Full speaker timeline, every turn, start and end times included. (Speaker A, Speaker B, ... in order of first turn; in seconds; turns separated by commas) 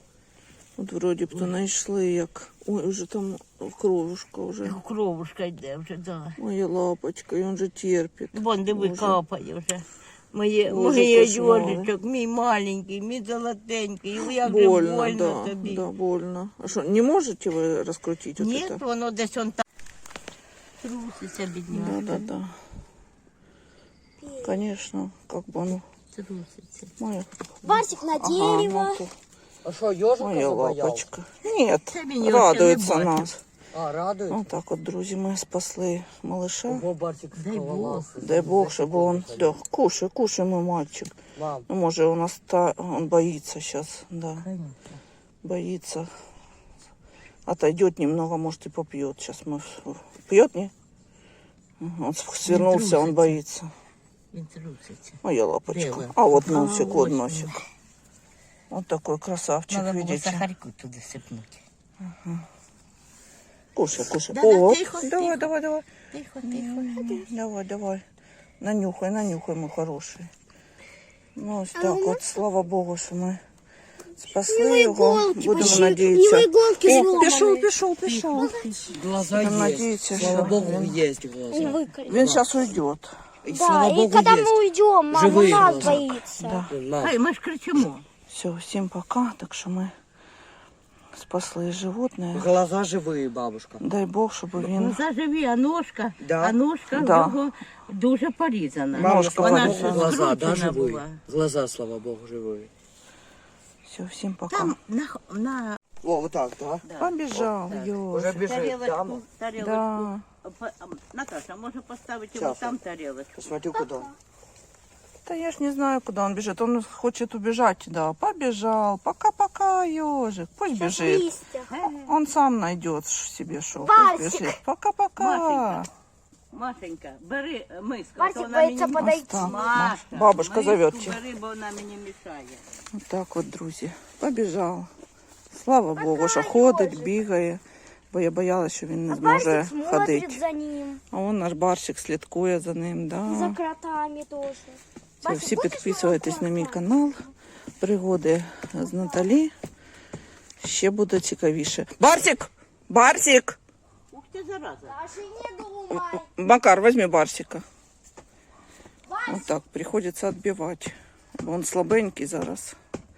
Speaker A: 0.8-4.8, Speaker B: 4.6-6.4, Speaker A: 6.4-9.2, Speaker B: 8.3-15.8, Speaker A: 10.6-11.9, Speaker A: 14.3-18.8, Speaker B: 18.4-19.6, Speaker B: 20.8-22.2, Speaker A: 21.7-22.5, Speaker C: 24.2-24.5, Speaker A: 24.4-25.8, Speaker B: 26.1-26.9, Speaker A: 27.0-29.1, Speaker C: 27.6-29.0, Speaker D: 29.6-31.1, Speaker A: 30.2-33.4, Speaker B: 31.9-33.3, Speaker D: 33.7-34.5, Speaker A: 34.3-36.8, Speaker D: 36.7-39.5, Speaker B: 37.3-38.2, Speaker A: 38.2-41.1, Speaker D: 41.4-41.7, Speaker A: 41.7-44.5, Speaker B: 44.4-45.0, Speaker A: 45.4-46.1, Speaker A: 47.5-50.7, Speaker A: 51.8-53.7, Speaker B: 52.5-53.4, Speaker B: 54.3-57.6, Speaker A: 55.2-57.5, Speaker A: 58.7-60.5, Speaker B: 59.7-61.6, Speaker A: 62.0-62.4, Speaker A: 63.7-65.9, Speaker B: 64.3-65.5, Speaker B: 66.1-67.1, Speaker A: 66.4-68.0, Speaker C: 67.0-67.2, Speaker A: 68.6-70.3, Speaker A: 71.3-73.4, Speaker C: 71.7-72.4, Speaker A: 74.2-78.6, Speaker C: 74.3-77.7, Speaker B: 78.0-79.0, Speaker C: 78.3-79.1, Speaker D: 78.9-82.4, Speaker A: 79.3-81.0, Speaker C: 81.5-82.4, Speaker A: 82.0-83.1, Speaker D: 83.4-84.6, Speaker C: 83.5-86.7, Speaker D: 85.1-86.1, Speaker A: 85.8-86.7, Speaker D: 86.7-87.1, Speaker B: 87.0-88.0, Speaker A: 88.3-89.9, Speaker A: 91.1-92.5, Speaker D: 92.3-93.9, Speaker A: 93.8-95.0, Speaker B: 94.5-101.2, Speaker D: 96.2-96.5, Speaker A: 96.9-97.4, Speaker D: 98.9-102.7, Speaker A: 99.0-100.2, Speaker A: 103.8-104.8, Speaker B: 104.5-105.8, Speaker D: 106.0-106.8, Speaker B: 106.8-107.1, Speaker A: 107.0-108.5, Speaker B: 107.7-113.4, Speaker D: 108.1-109.2, Speaker A: 109.6-110.2, Speaker D: 112.3-112.8, Speaker D: 113.3-114.1, Speaker C: 113.7-114.1, Speaker A: 115.2-121.3, Speaker C: 120.7-121.7, Speaker B: 121.7-122.1, Speaker A: 122.0-125.9, Speaker C: 123.8-124.6, Speaker B: 125.2-125.9, Speaker B: 126.5-132.6, Speaker C: 128.2-129.7, Speaker A: 129.0-131.2, Speaker A: 132.9-134.9, Speaker A: 135.5-140.4, Speaker C: 135.9-137.2, Speaker C: 139.1-141.0, Speaker A: 141.1-143.6, Speaker C: 143.2-146.9, Speaker A: 145.2-147.3, Speaker A: 147.8-149.5, Speaker C: 148.8-149.3, Speaker A: 150.6-153.6, Speaker B: 154.1-155.0, Speaker C: 154.8-156.3, Speaker A: 155.9-157.6, Speaker C: 159.1-159.5, Speaker A: 159.2-162.8